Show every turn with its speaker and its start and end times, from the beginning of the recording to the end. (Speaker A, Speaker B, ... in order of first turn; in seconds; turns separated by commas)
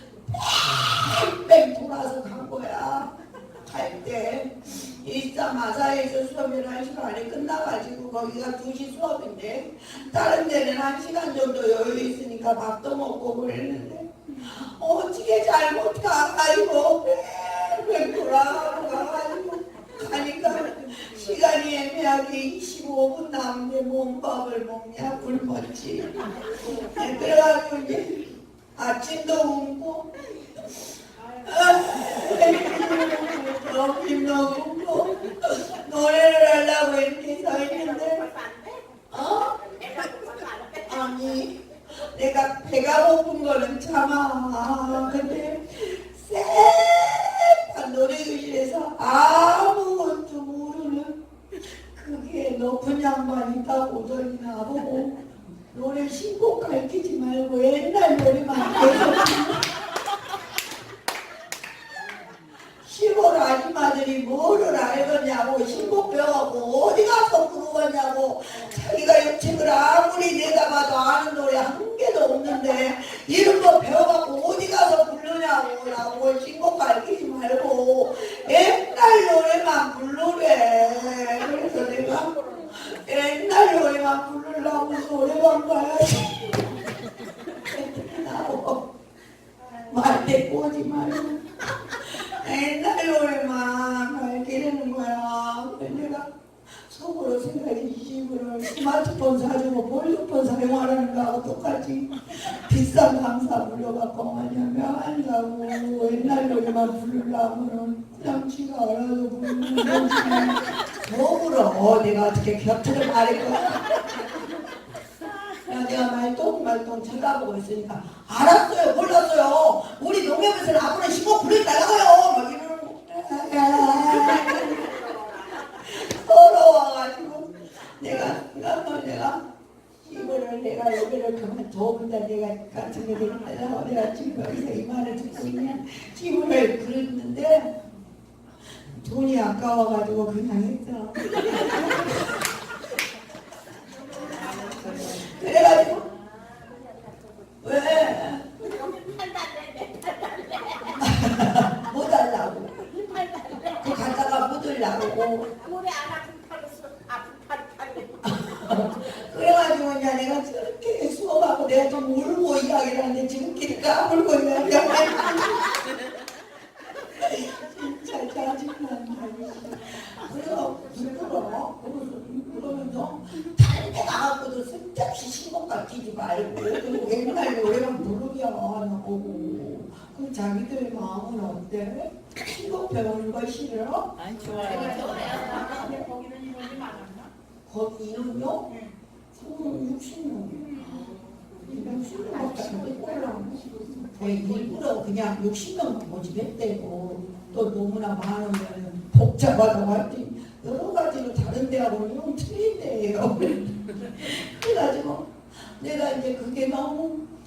Speaker A: 0.2-38.4, Speaker B: 38.3-38.8, Speaker A: 39.1-39.8, Speaker B: 39.9-40.6, Speaker A: 40.6-51.2, Speaker A: 51.9-59.6, Speaker A: 62.8-86.8, Speaker A: 87.5-88.8, Speaker A: 89.8-96.3, Speaker A: 96.9-114.2, Speaker A: 115.5-129.4, Speaker A: 130.1-137.8, Speaker A: 138.9-142.3, Speaker A: 145.0-146.1, Speaker A: 147.6-148.7, Speaker B: 148.8-150.8, Speaker A: 151.0-153.1, Speaker A: 153.6-155.7, Speaker B: 155.7-158.2, Speaker A: 158.2-165.7, Speaker A: 167.0-186.0, Speaker B: 184.5-187.3, Speaker A: 187.7-188.8, Speaker A: 189.3-191.0, Speaker A: 191.6-207.3